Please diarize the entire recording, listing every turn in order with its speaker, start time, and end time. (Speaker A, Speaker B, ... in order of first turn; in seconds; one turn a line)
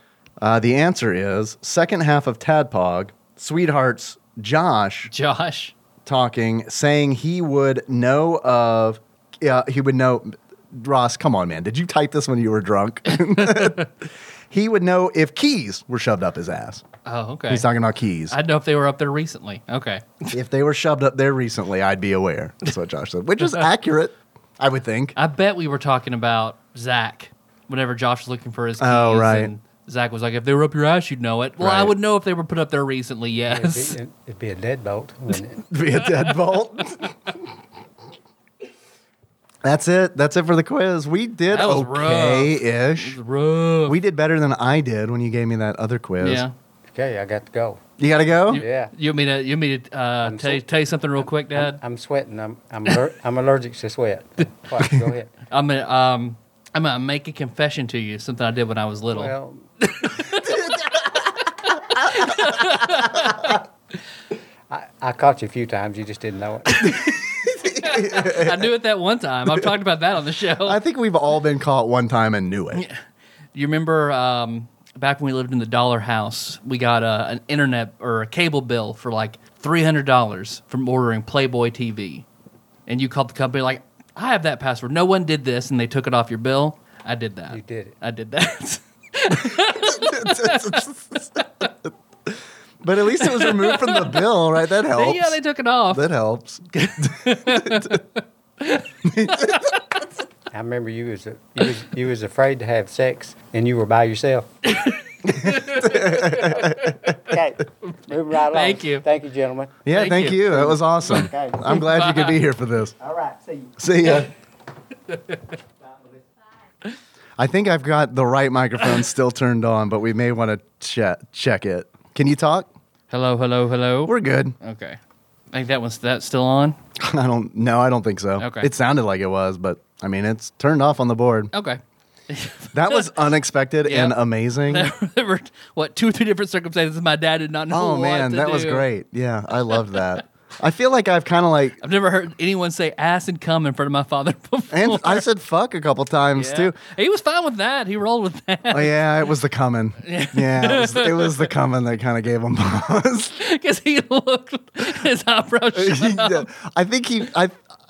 Speaker A: 0.4-5.1
Speaker B: 5.1-5.7
Speaker A: 6.0-16.8
Speaker B: 13.4-13.8
Speaker B: 17.1-17.6
Speaker A: 17.5-18.4
Speaker B: 18.3-20.3
Speaker A: 20.3-25.1
Speaker B: 25.1-34.0
Speaker A: 28.8-29.5
Speaker A: 31.6-31.9
Speaker C: 33.5-35.6
Speaker A: 35.7-37.3
Speaker A: 39.6-43.2
Speaker B: 41.5-44.0
Speaker A: 43.8-46.4
Speaker B: 46.2-46.5
Speaker C: 46.9-47.8
Speaker A: 48.0-48.6
Speaker C: 48.5-48.9
Speaker B: 48.5-51.8
Speaker C: 50.2-50.6
Speaker C: 51.2-55.3
Speaker B: 55.5-63.6
Speaker C: 59.1-59.6
Speaker C: 64.7-67.0
Speaker B: 66.7-70.8
Speaker A: 67.5-68.7
Speaker A: 70.6-72.8
Speaker B: 72.7-73.0
Speaker B: 73.5-82.2
Speaker B: 82.9-91.2
Speaker C: 87.5-87.9
Speaker A: 89.4-91.9
Speaker A: 92.8-95.4
Speaker B: 93.2-96.1
Speaker A: 95.9-98.0
Speaker B: 96.7-99.8
Speaker A: 99.0-99.7
Speaker C: 100.5-104.5
Speaker B: 104.6-107.1
Speaker A: 105.3-106.9
Speaker C: 106.3-109.8
Speaker B: 108.5-109.0
Speaker A: 109.8-113.0
Speaker B: 109.9-110.4
Speaker C: 110.5-111.6
Speaker B: 111.7-112.3
Speaker C: 113.1-113.6
Speaker A: 113.8-114.3
Speaker A: 117.4-122.7
Speaker B: 123.1-125.0
Speaker A: 124.0-124.5
Speaker B: 125.5-126.8
Speaker A: 127.0-131.5
Speaker B: 128.4-128.7
Speaker B: 131.5-133.1
Speaker A: 132.7-134.9
Speaker B: 133.8-138.9
Speaker A: 137.7-141.8
Speaker B: 139.8-140.1
Speaker B: 141.8-145.2
Speaker A: 144.7-146.7
Speaker B: 146.3-149.0
Speaker A: 148.7-153.4
Speaker B: 150.0-151.5
Speaker B: 153.4-156.5
Speaker A: 155.7-157.6